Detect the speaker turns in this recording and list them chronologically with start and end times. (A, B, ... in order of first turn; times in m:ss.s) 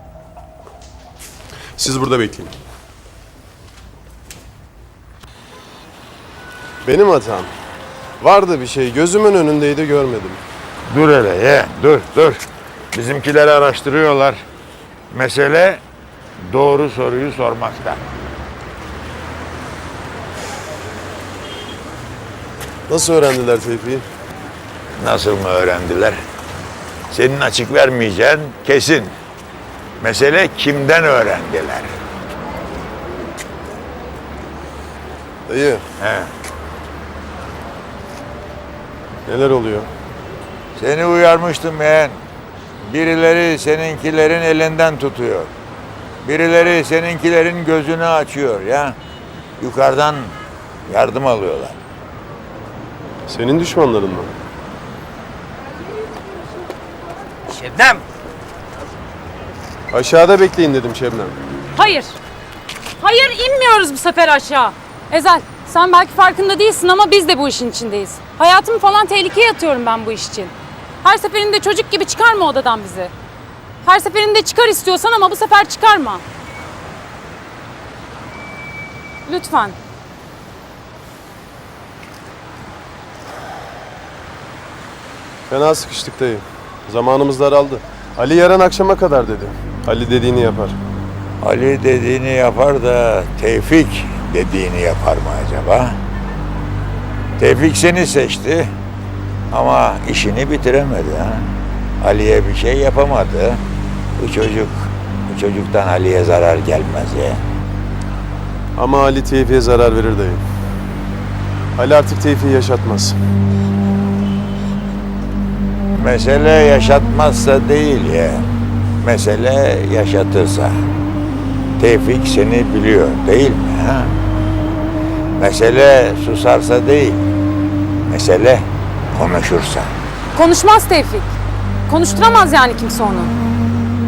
0:01.8-0:02.5 A
0:06.8-0:07.5 A
0:08.2-0:10.4 A
0:10.9-0:12.4 B
0:12.9-0:14.4 B
0:15.1-0:15.8 B
0:16.4-0:18.0 B
0:22.9-0:24.0 A
0:25.0-0:26.2 B
0:27.1-0:29.1 B
0:30.0-0:31.8 B
0:35.5-0:35.8 A
0:36.0-0:36.3 B
0:39.3-0:39.9 A
0:40.8-0:42.2 B
0:42.8-0:45.5 B
0:46.2-0:49.0 B
0:49.6-0:50.3 B
0:50.9-0:51.8 B
0:53.3-0:54.3 A
0:59.9-1:01.3 A
1:01.7-1:02.1 C
1:03.0-1:13.1 C
1:13.8-1:16.2 C
1:19.2-1:19.8 C
1:25.5-1:30.8 A
1:31.4-1:36.0 B
1:37.4-1:38.7 B
1:39.5-1:41.5 B
1:42.0-1:43.6 B
1:44.2-1:47.4 B
1:48.8-1:50.4 A
1:51.8-1:53.2 A
1:56.0-1:58.5 B
1:59.0-2:00.8 B
2:01.8-2:04.1 B
2:05.4-2:07.2 B
2:08.1-2:09.9 B
2:10.3-2:11.3 C
2:11.9-2:13.3 C